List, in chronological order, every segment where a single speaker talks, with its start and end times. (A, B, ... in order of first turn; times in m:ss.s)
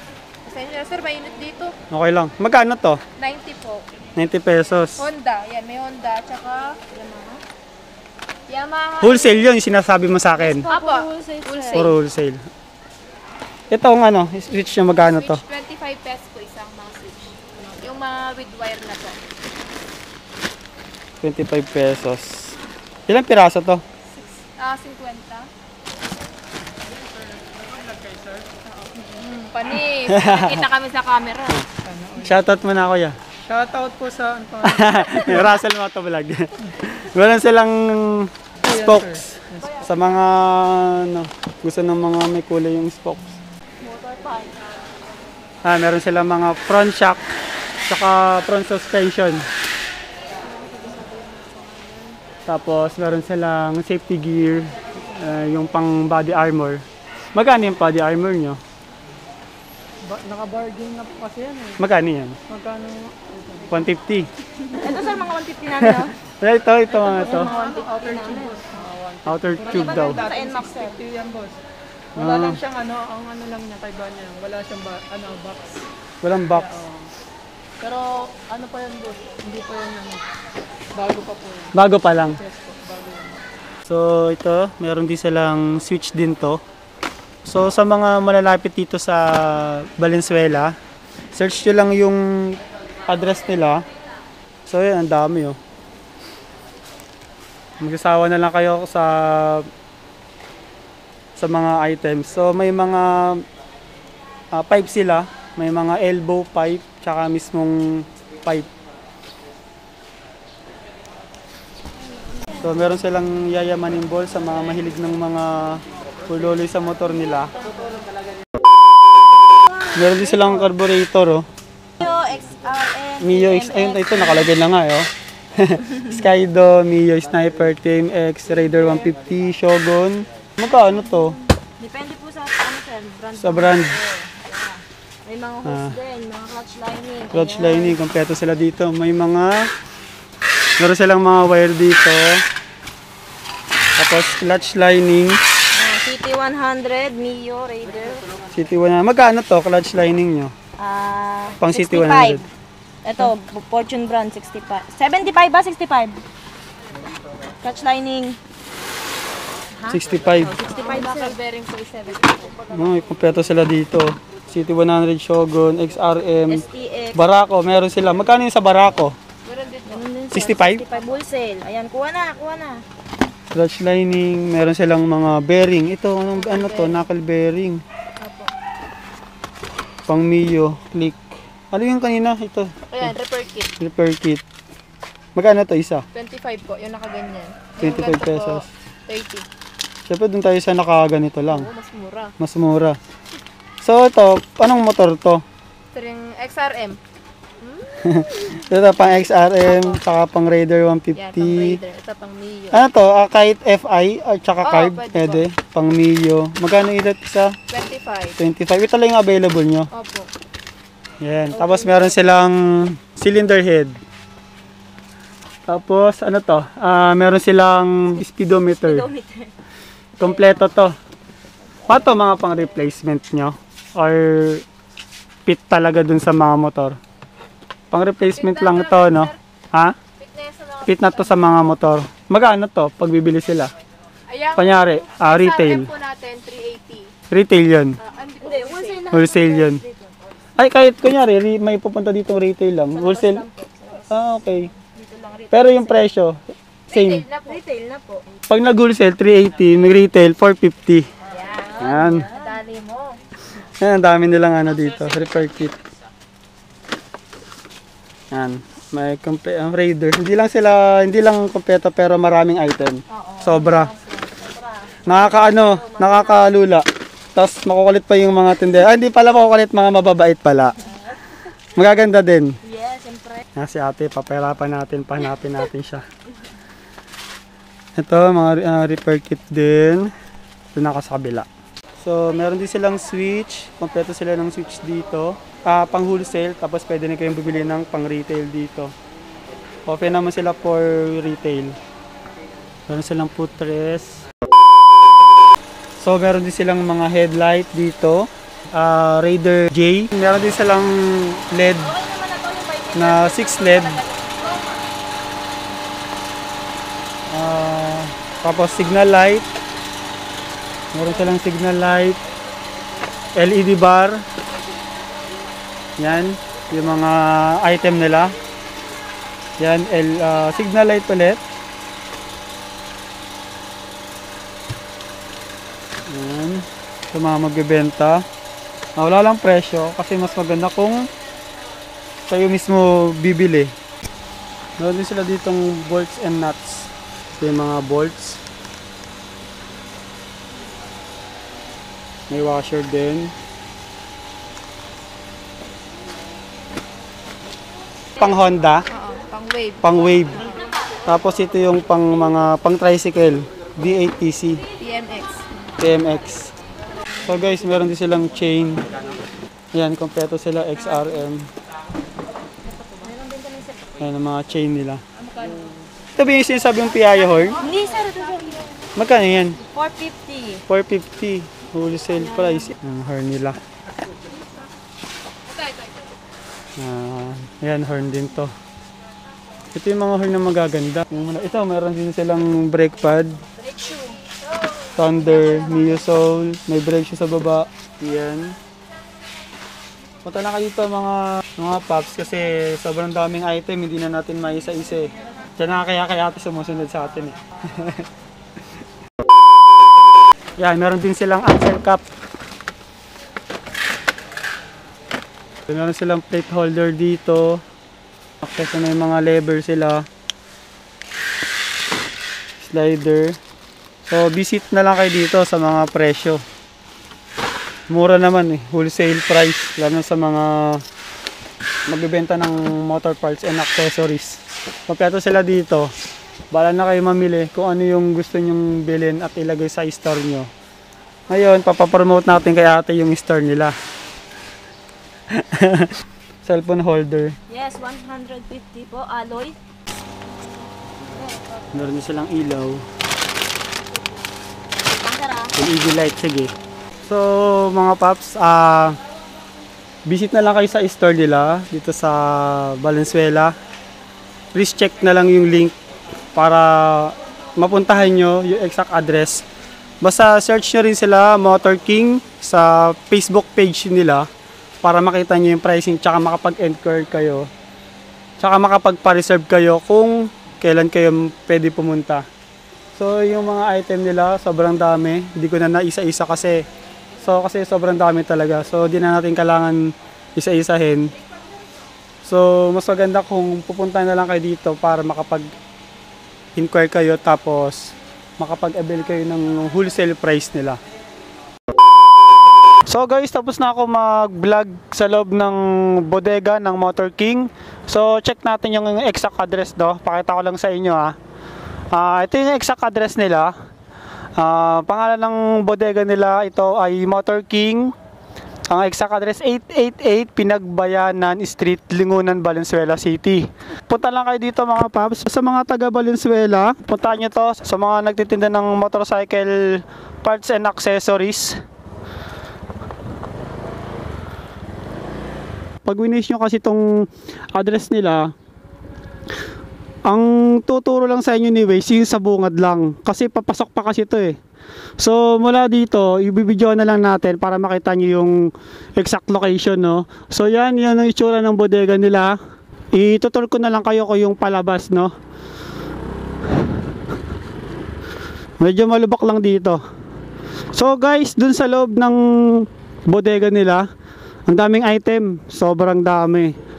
0:00.4-0:01.7 A
0:01.9-0:03.0 B
0:03.2-0:03.8 A
0:04.2-0:05.0 B
0:05.0-0:06.8 A
0:06.9-0:07.4 C
0:08.5-0:09.6 A
0:09.0-0:10.7 B
0:10.4-0:12.0 A
0:10.7-0:11.9 C
0:11.7-0:12.4 B
0:13.7-0:15.4 B
0:14.9-0:19.2 A
0:21.2-0:23.8 B
0:24.6-0:25.5 A
0:28.6-0:31.6 A
0:30.1-0:30.6 B
0:31.8-0:32.3 D
0:32.1-0:33.2 B
0:33.4-0:35.1 D
0:34.6-0:43.4 B
0:38.7-0:39.7 D
0:39.6-0:40.2 C
0:43.8-0:44.6 C
0:45.6-0:47.2 B
0:47.9-0:49.4 B
0:50.4-0:52.2 C
0:52.5-0:56.8 B
0:57.3-0:58.6 B
1:00.1-1:01.8 D
1:01.8-1:02.4 B
1:02.5-1:03.8 D
1:03.7-1:04.3 B
1:04.6-1:06.1 C
1:05.8-1:07.5 B
1:07.0-1:11.5 D
1:07.1-1:08.6 C
1:09.2-1:10.2 B
1:09.6-1:11.0 C
1:12.1-1:12.6 B
1:12.2-1:15.8 D
1:15.0-1:15.4 A
1:16.2-1:16.8 B
1:17.8-1:19.4 A
1:17.8-1:20.2 D
1:21.0-1:21.7 D
1:21.2-1:21.5 A
1:21.7-1:22.4 B
1:22.4-1:23.3 D
1:23.8-1:26.6 B
1:27.4-1:30.7 B
1:31.3-1:32.2 B
1:33.1-1:33.8 B
1:34.7-1:35.6 B
1:37.8-1:39.6 B
1:41.4-1:43.4 B
1:44.5-1:48.7 B
1:52.6-1:57.5 B
1:59.6-2:00.7 C
1:59.9-2:01.4 B
2:02.0-2:04.5 C
2:03.2-2:11.4 B
2:08.6-2:09.1 C
2:10.6-2:18.0 C
2:13.4-2:14.0 B
2:15.6-2:16.0 B
2:17.3-2:19.7 B
2:20.8-2:22.4 B
2:24.0-2:25.4 B
2:25.7-2:28.2 C
2:28.5-2:30.5 B
2:30.8-2:32.4 C
2:31.6-2:32.4 B
2:33.0-2:36.2 C
2:37.6-2:38.4 C
2:39.8-2:41.3 C
2:39.9-2:40.5 B
2:40.7-2:42.6 A
2:42.7-2:49.1 B
2:46.5-2:47.2 C
2:49.4-2:50.1 A
2:49.9-2:52.8 C
2:50.3-2:50.8 B
2:53.5-2:57.8 B
2:56.3-2:57.0 A
2:58.2-2:58.5 A
3:00.1-3:03.1 B
3:02.9-3:03.7 A
3:03.8-3:04.4 B
3:05.3-3:06.0 B
3:06.1-3:09.4 A
3:07.8-3:08.7 B
3:10.0-3:11.7 B
3:11.5-3:12.3 A
3:12.4-3:13.0 B
3:13.8-3:15.4 B
3:15.9-3:17.0 A
3:17.6-3:18.0 A
3:18.0-3:21.8 B
3:18.6-3:20.0 A
3:21.1-3:22.8 A
3:22.7-3:27.5 B
3:24.6-3:25.5 A
3:27.7-3:28.4 A
3:28.4-3:29.9 B
3:29.9-3:30.3 A
3:31.2-3:34.0 B
3:31.5-3:32.2 C
3:35.7-3:39.1 B
3:38.7-3:39.5 C
3:40.2-3:40.9 B
3:40.2-3:40.7 C
3:41.9-3:44.6 B
3:45.4-3:47.0 B
3:47.9-3:50.0 B
3:48.3-3:49.4 A
3:50.2-3:51.6 A
3:50.8-3:53.7 B
3:54.3-3:57.1 A
3:54.6-3:55.9 B
3:57.3-3:58.0 B
3:58.0-3:59.3 A
3:58.4-4:00.2 C
3:59.1-3:59.8 B
4:00.6-4:03.4 B
4:02.9-4:04.1 C
4:04.1-4:04.7 B
4:04.9-4:06.0 A
4:05.5-4:06.4 B
4:06.9-4:07.6 A
4:06.9-4:07.2 B
4:07.4-4:08.3 C
4:08.5-4:11.0 B
4:11.3-4:12.6 C
4:11.8-4:12.2 B
4:11.8-4:13.2 A
4:13.8-4:15.8 B
4:18.3-4:23.9 B
4:23.2-4:26.5 C
4:25.0-4:26.8 B
4:27.3-4:30.7 B
4:30.8-4:31.2 C
4:31.7-4:32.5 B
4:32.6-4:33.4 C
4:33.6-4:36.0 B
4:38.0-4:40.1 B
4:40.7-4:41.4 B
4:42.0-4:48.9 B
4:49.8-4:51.7 B
4:52.9-4:54.1 B
4:56.0-5:01.9 B
5:01.7-5:04.8 C
5:02.9-5:04.0 B
5:04.4-5:04.8 A
5:07.3-5:09.4 B
5:10.9-5:12.2 B
5:13.4-5:14.2 B
5:16.0-5:18.3 B
5:19.6-5:21.4 B
5:26.1-5:28.2 B
5:29.0-5:31.0 B
5:32.3-5:33.7 B
5:34.8-5:38.4 B
5:42.3-5:43.3 B
5:48.2-5:48.8 B
5:48.9-5:50.6 A
5:49.8-5:50.4 B
5:51.0-5:54.6 B
5:54.8-5:55.5 A
5:55.8-5:56.5 B
5:57.2-5:58.8 B
5:59.7-6:01.5 B
6:03.0-6:03.8 C
6:04.0-6:05.0 B
6:05.2-6:05.7 A
6:06.2-6:07.6 B
6:07.4-6:08.1 A
6:07.6-6:08.8 C
6:08.9-6:09.6 B
6:09.6-6:10.6 C
6:10.7-6:13.6 B
6:12.1-6:12.7 C
6:15.5-6:16.1 A
6:16.8-6:18.5 B
6:19.7-6:23.4 B
6:25.0-6:28.5 B
6:25.0-6:25.6 A
6:30.2-6:38.0 B
6:40.6-6:42.0 B
6:45.7-6:47.6 B
6:48.4-6:50.0 B
6:52.6-6:53.4 B
6:54.1-6:56.4 B
6:57.9-7:00.8 B
7:01.9-7:05.9 B
7:06.5-7:10.5 B
7:11.3-7:13.7 B
7:15.3-7:15.9 B
7:16.4-7:17.4 B
7:17.5-7:19.6 C
7:21.1-7:21.6 C
7:21.7-7:22.8 B
7:24.8-7:25.5 C
7:25.6-7:26.5 B
7:27.1-7:29.0 B
7:30.0-7:33.5 B
7:34.5-7:35.8 B
7:36.3-7:39.4 B
7:40.0-7:44.2 B
7:44.8-7:47.5 B
7:48.4-7:52.2 B
7:52.9-7:56.6 B
7:57.2-7:59.8 B
8:00.4-8:01.1 B
8:02.2-8:05.5 B
8:06.5-8:10.8 B
8:12.9-8:21.1 B
8:21.9-8:23.5 B
8:24.4-8:27.9 B
8:28.7-8:41.6 B
8:45.8-8:46.8 B
8:47.5-8:48.3 B
8:50.1-8:54.4 B
8:55.0-8:58.4 B
8:59.0-9:02.4 B
9:02.9-9:05.1 B
9:08.6-9:09.8 B
9:10.7-9:13.8 B
9:14.5-9:16.5 B